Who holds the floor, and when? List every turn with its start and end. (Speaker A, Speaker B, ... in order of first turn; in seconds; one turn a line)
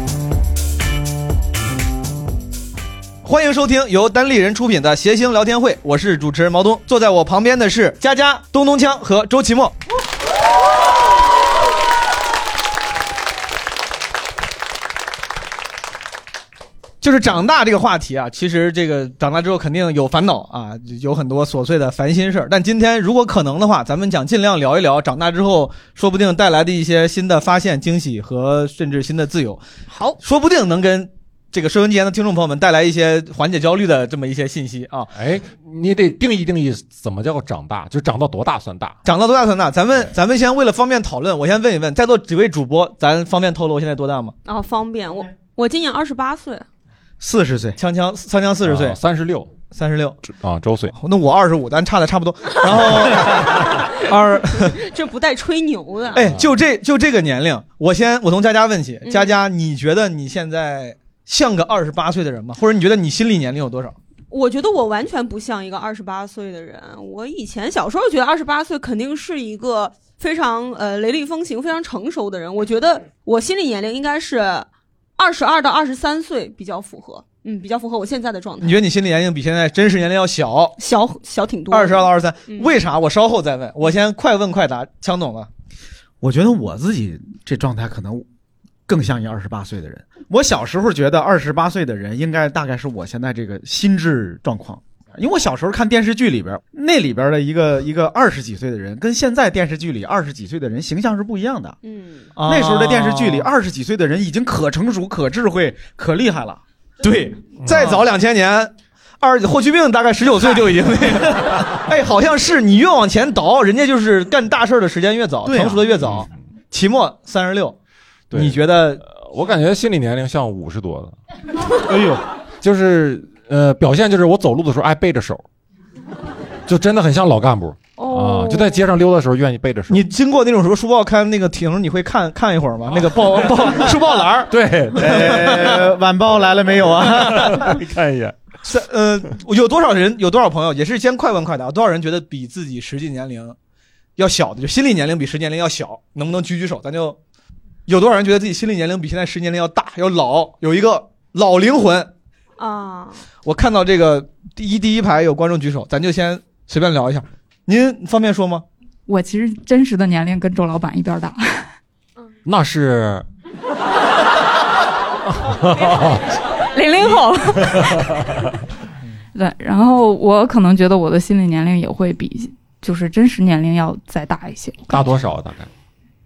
Speaker A: 3.2-9.8
Speaker A: 17.0-29.6
Speaker B: 29.9-30.2
Speaker A: 30.2-35.1
Speaker C: 35.1-38.9
Speaker A: 39.0-44.3
Speaker B: 44.4-46.6
Speaker D: 47.2-47.8
Speaker A: 47.8-49.0
Speaker C: 48.6-49.5
Speaker A: 49.7-50.2
Speaker C: 50.3-50.9
Speaker A: 50.9-54.8
Speaker B: 54.7-56.3
Speaker A: 56.1-64.0
Speaker B: 59.0-59.4
Speaker B: 64.3-78.8
Speaker A: 78.6-80.8
Speaker B: 80.8-82.8
Speaker A: 81.7-85.5
Speaker D: 86.2-88.2
Speaker D: 88.9-101.8
Speaker B: 101.8-102.3
Speaker A: 102.3-103.5
Speaker D: 102.4-106.6
Speaker A: 107.0-117.8
Speaker D: 107.8-108.0
Speaker D: 110.4-110.8
Speaker D: 115.4-115.8
Speaker C: 118.3-121.2
Speaker A: 118.3-119.0
Speaker D: 121.9-122.2
Speaker C: 122.6-125.4
Speaker C: 126.7-130.0
Speaker B: 128.0-129.0
Speaker A: 129.9-134.5
Speaker C: 134.5-135.7
Speaker D: 134.9-137.8
Speaker C: 137.1-138.3
Speaker A: 138.6-143.6
Speaker A: 144.2-147.2
Speaker A: 147.8-152.1
Speaker B: 152.6-153.2
Speaker A: 153.4-158.6
Speaker E: 159.1-161.7
Speaker C: 162.4-163.2
Speaker C: 165.3-166.4
Speaker B: 166.7-168.1
Speaker E: 169.3-175.0
Speaker C: 174.9-175.7